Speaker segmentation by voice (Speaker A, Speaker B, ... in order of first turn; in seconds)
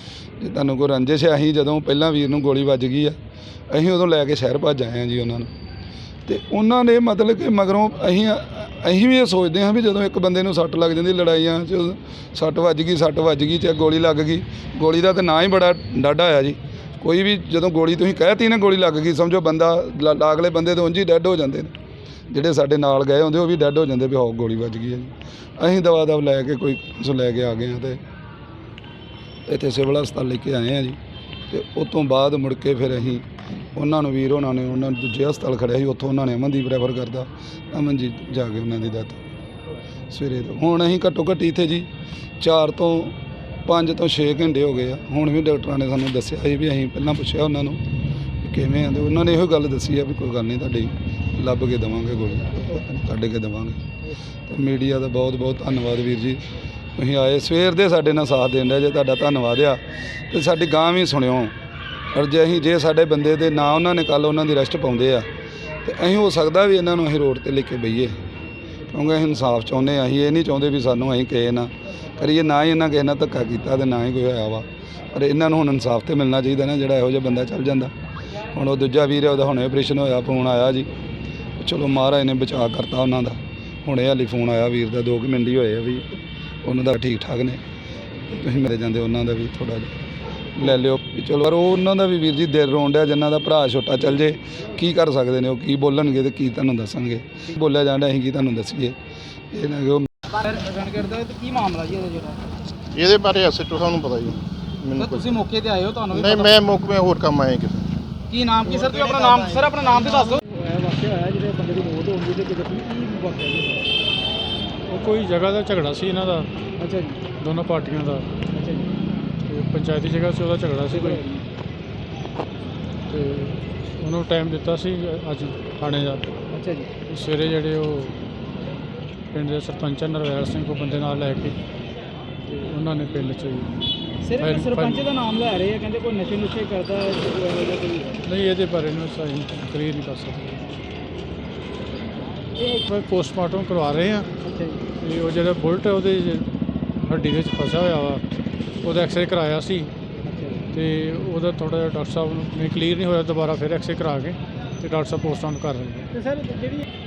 Speaker A: 0.4-3.2, 3.7-5.5, 6.3-21.7, 22.3-28.0, 29.5-31.0, 31.5-39.2, 40.1-41.9, 42.4-47.8, 48.4-53.8, 54.5-56.4, 57.0-61.5, 62.1-65.3, 65.8-68.2, 68.9-77.9, 78.5-80.9, 81.6-86.1, 86.6-87.6, 88.3-90.0, 90.5-99.0, 99.5-100.1
Speaker B: 100.3-102.4, 105.0-106.7, 108.3-113.9, 116.8-117.2, 118.5-119.0, 120.9-121.5, 126.5-126.9, 134.2-138.2, 144.4-144.8, 150.3-150.7, 156.1-156.8
Speaker C: 103.0-104.4, 106.4-107.8
Speaker D: 114.9-116.5, 117.4-118.3, 119.5-121.2, 123.1-126.3, 127.1-128.2, 129.3-131.6, 132.5-133.7, 134.4-135.1, 138.2-140.7, 142.6-144.3, 145.0-148.3, 148.8-149.9, 150.7-156.1